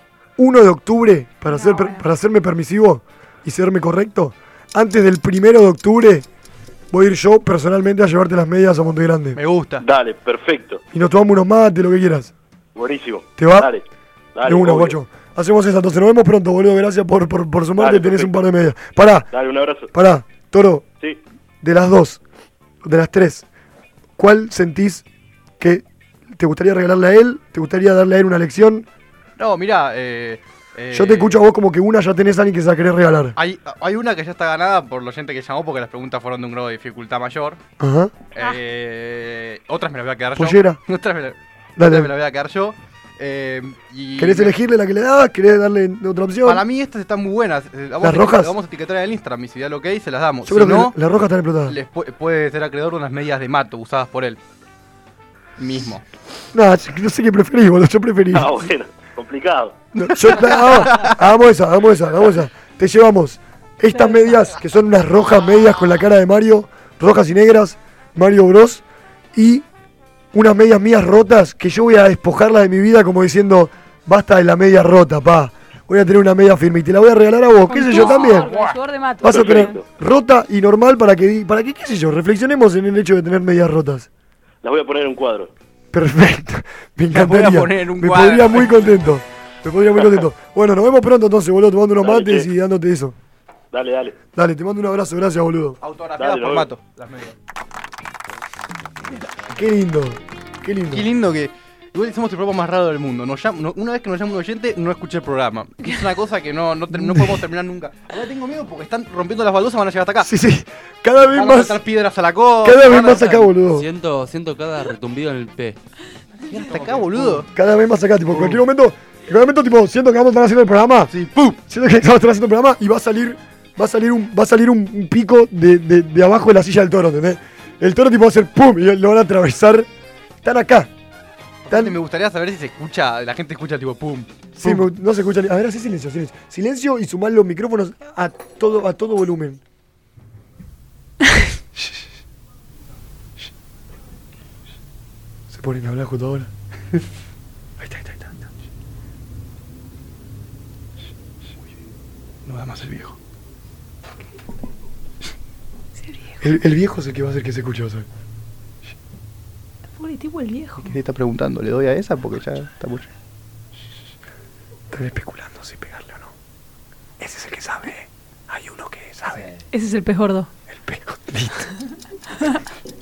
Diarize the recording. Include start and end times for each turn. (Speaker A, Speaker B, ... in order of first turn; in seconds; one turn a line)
Speaker A: 0.4-6.2
Speaker B: 1.5-2.0
Speaker A: 6.9-9.4
Speaker C: 9.3-9.8
Speaker D: 9.8-10.8
Speaker A: 10.9-12.3
Speaker D: 12.8-13.8
Speaker A: 13.4-13.7
Speaker D: 14.3-15.0
Speaker A: 14.4-19.3
Speaker D: 17.8-18.3
Speaker D: 19.3-19.9
Speaker A: 19.9-20.8
Speaker A: 21.6-22.2
Speaker A: 22.8-23.4
Speaker A: 24.2-25.0
Speaker A: 25.6-28.9
Speaker C: 29.4-31.4
Speaker A: 30.9-33.4
Speaker C: 33.4-37.6
Speaker A: 37.8-38.1
Speaker C: 38.3-44.5
Speaker A: 40.4-40.8
Speaker A: 41.8-42.1
Speaker A: 44.2-46.6
Speaker C: 46.4-50.9
Speaker A: 48.0-48.5
Speaker A: 50.4-51.8
Speaker C: 51.6-54.4
Speaker C: 55.6-56.0
Speaker A: 56.5-58.7
Speaker D: 58.3-59.8
Speaker A: 60.0-69.7
Speaker C: 60.2-61.2
Speaker B: 63.9-64.5
Speaker A: 70.3-78.5
Speaker B: 77.7-79.8
Speaker A: 79.2-84.1
Speaker D: 79.2-79.8
Speaker D: 84.6-85.5
Speaker A: 85.9-93.2
Speaker C: 87.1-89.0
Speaker D: 92.0-92.5
Speaker D: 93.7-94.2
Speaker A: 94.3-95.8
Speaker C: 95.8-97.3
Speaker D: 96.2-96.7
Speaker A: 99.5-101.1
Speaker C: 100.9-110.3
Speaker A: 106.9-107.4
Speaker A: 110.2-111.8
Speaker C: 111.2-113.5
Speaker A: 112.6-113.9
Speaker E: 113.6-115.8
Speaker C: 116.5-117.5
Speaker A: 117.1-121.1
Speaker C: 118.3-118.6
Speaker C: 121.1-121.6
Speaker A: 121.7-129.9
Speaker A: 130.4-130.9
Speaker C: 131.7-134.9
Speaker A: 131.7-132.0
Speaker A: 134.6-139.6
Speaker A: 145.5-146.5
Speaker A: 147.8-148.4
Speaker C: 152.4-153.2
Speaker B: 156.0-156.4
Speaker A: 156.4-158.1
Speaker B: 160.0-160.9
Speaker C: 160.8-163.1
Speaker A: 164.9-166.3
Speaker A: 167.2-169.4
Speaker B: 169.7-170.5
Speaker A: 170.8-171.5